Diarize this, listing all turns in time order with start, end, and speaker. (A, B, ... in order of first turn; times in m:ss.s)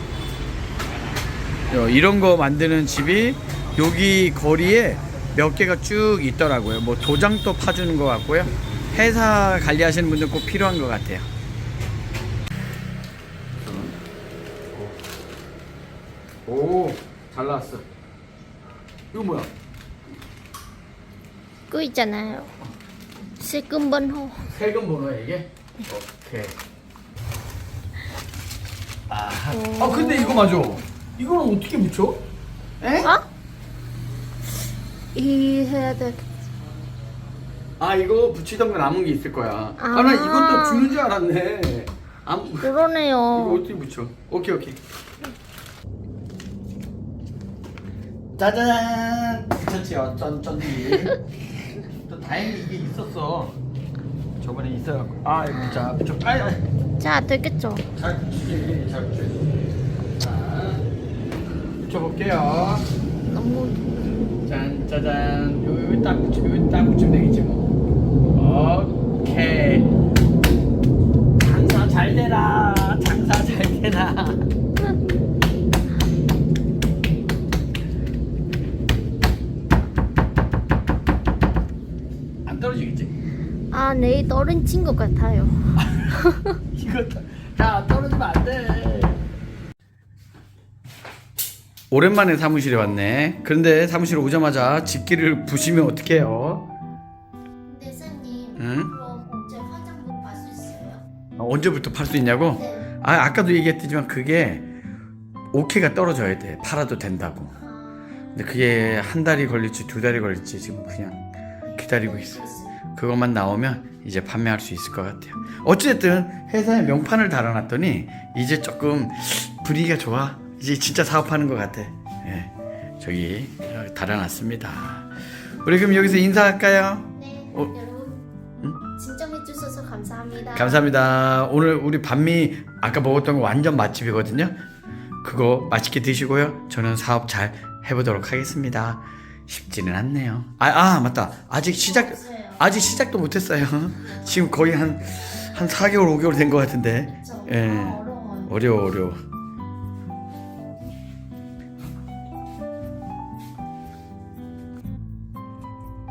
0:01.7-0:11.3 A
0:13.6-0:14.0 A
0:14.7-0:15.0 A
0:16.5-0:17.8 A
0:19.1-0:19.5 A
0:21.7-0:22.5 B
0:23.4-0:24.5 B
0:24.5-0:26.6 A
0:29.1-0:32.2 A
0:29.5-0:30.8 B
0:32.8-0:33.1 A
0:35.2-0:36.3 B
0:37.8-0:42.8 A
0:39.8-0:41.0 B
0:42.6-0:43.6 B
0:43.3-0:44.8 A
0:48.4-0:51.2 A
0:51.9-0:53.6 A
0:54.4-0:56.6 A
0:55.5-0:55.9 B
0:57.0-0:57.9 B
0:57.9-0:59.6 A
1:00.2-1:00.8 A
1:01.8-1:02.9 A
1:03.3-1:04.3 B
1:04.4-1:07.7 A
1:08.3-1:09.9 A
1:11.4-1:14.5 A
1:22.4-1:23.1 A
1:23.7-1:26.6 B
1:25.8-1:29.2 A
1:31.9-1:36.7 A
1:37.6-1:41.0 B
1:38.6-1:38.9 A
1:41.4-1:44.7 A
1:42.3-1:42.9 B
1:45.5-1:47.6 A
1:47.6-1:48.1 B
1:48.3-2:05.1 A
1:51.7-1:52.8 B
2:05.6-2:07.7 A
2:07.2-2:08.2 B
2:08.9-2:11.0 B
2:10.5-2:14.5 A
2:15.2-2:29.2 A
2:21.7-2:22.7 B
2:27.2-2:28.8 B